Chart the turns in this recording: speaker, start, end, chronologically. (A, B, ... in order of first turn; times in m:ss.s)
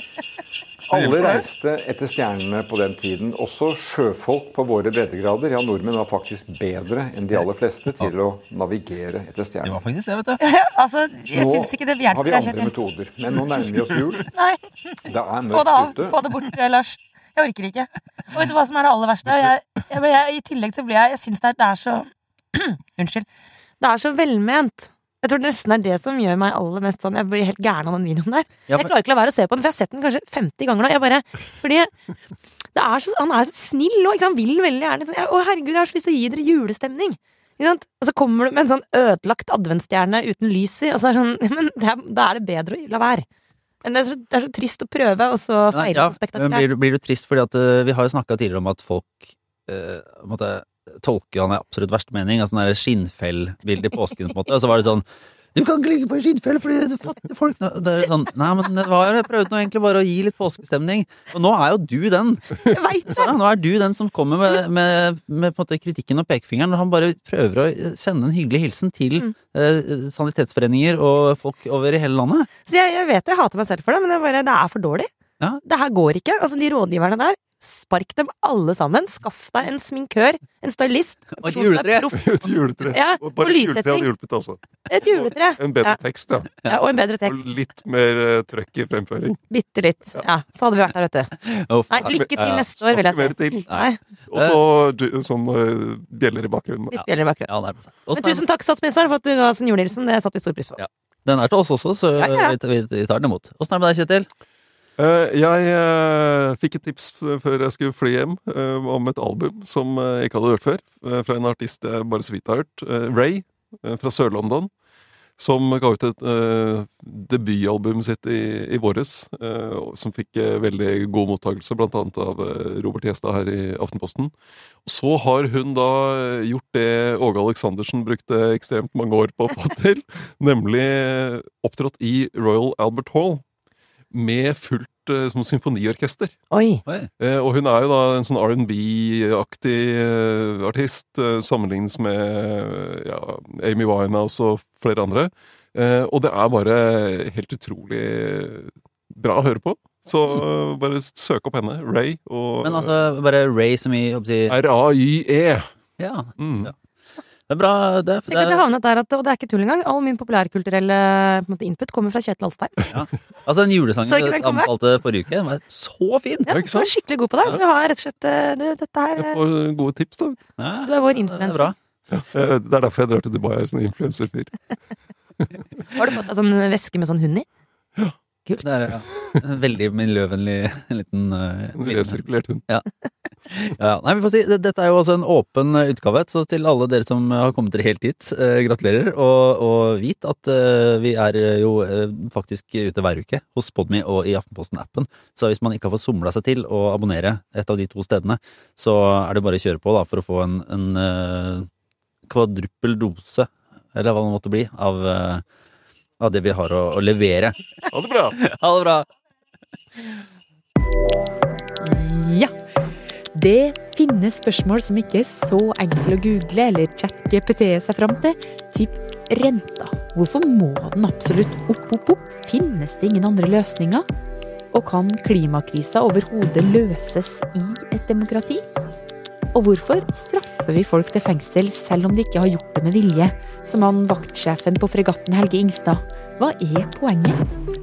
0:00.9-0:01.4 A
0:00.9-0:09.8 B
0:09.6-0:10.4 C
0:10.4-0:12.7 D
0:11.3-0:14.3 B
0:14.3-0:14.6 D
0:15.0-0:16.2 B
0:15.5-0:23.2 D
0:23.8-0:31.9 D
0:32.7-0:43.2 D
0:43.8-0:46.6 D
0:45.7-1:12.5 C
1:02.6-1:03.3 D
1:12.6-1:15.1 D
1:15.6-1:22.3 D
1:21.4-1:22.1 C
1:22.1-1:26.6 A
1:22.9-1:24.1 D
1:24.9-1:26.0 D
1:26.6-1:27.4 D
1:27.2-1:29.4 A
1:29.5-1:31.3 D
1:31.4-1:32.6 C
1:31.9-1:34.0 D
1:32.1-1:33.7 A
1:33.7-1:34.6 C
1:34.3-1:37.0 A
1:36.9-1:38.4 C
1:37.0-1:37.5 D
1:38.1-1:40.8 D
1:40.8-1:44.3 C
1:42.2-1:42.5 D
1:45.0-1:54.7 A
1:55.4-2:04.3 A
2:04.8-2:13.4 A
2:14.1-2:16.4 A
2:16.5-2:16.8 D
2:17.2-2:32.9 A
2:32.6-2:34.5 C
2:34.5-2:35.6 A
2:36.0-2:36.7 C
2:36.4-2:36.7 A
2:37.5-2:38.6 C
2:38.3-2:42.9 D
2:42.9-2:46.6 C
2:44.0-2:44.7 D
2:46.4-2:49.4 D
2:46.5-2:46.9 A
2:49.2-2:50.4 A
2:50.6-2:51.7 C
2:50.8-2:51.7 D
2:52.1-2:54.6 A
2:55.9-2:57.5 D
2:58.6-3:02.8 C
3:01.7-3:02.6 A
3:03.5-3:21.7 C
3:22.3-3:25.4 C
3:26.2-3:27.6 C
3:27.9-3:28.4 A
3:28.3-3:29.0 C
3:31.8-3:32.5 E
3:33.3-3:44.0 E
3:44.7-3:48.6 E
3:49.5-3:57.4 E